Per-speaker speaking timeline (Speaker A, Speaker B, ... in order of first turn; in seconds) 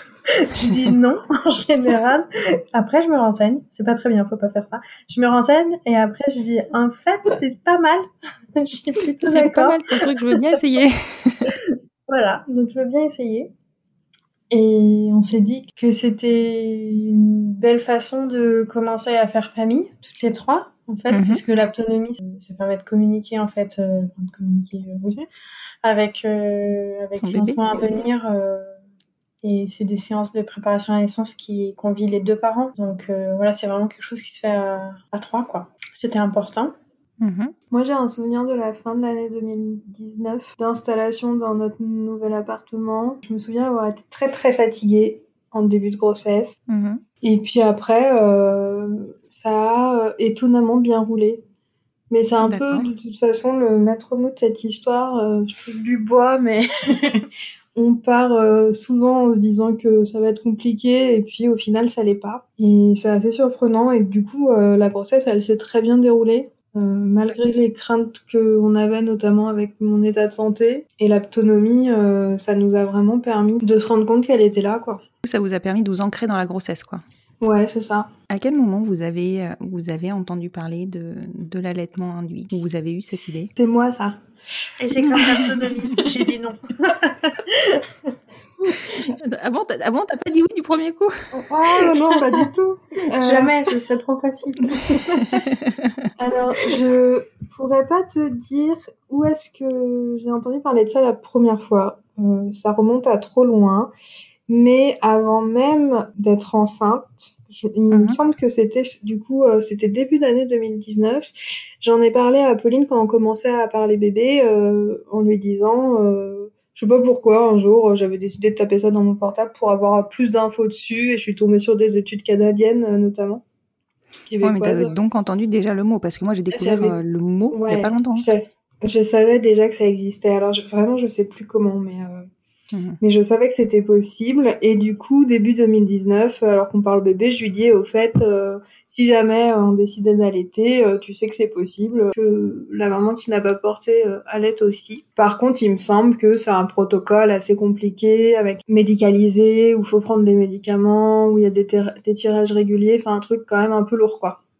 Speaker A: 0.2-10.1, 11.6-13.5, 14.5-25.2, 25.8-28.8, 29.4-36.7, 84.8-87.8, 93.1-95.0
Speaker B: 9.2-11.5, 21.1-21.4, 27.2-27.6, 37.2-37.5, 46.7-47.0, 52.4-52.9, 75.2-77.0, 78.3-83.5, 89.1-91.3, 107.9-108.2, 124.4-128.3, 132.7-133.0
Speaker C: 37.7-46.6, 47.2-51.4, 52.1-75.0, 77.4-78.1, 83.5-84.7, 91.3-93.7, 96.2-103.9, 104.5-123.4, 124.3-125.0, 126.5-127.0, 127.5-132.3, 133.0-154.4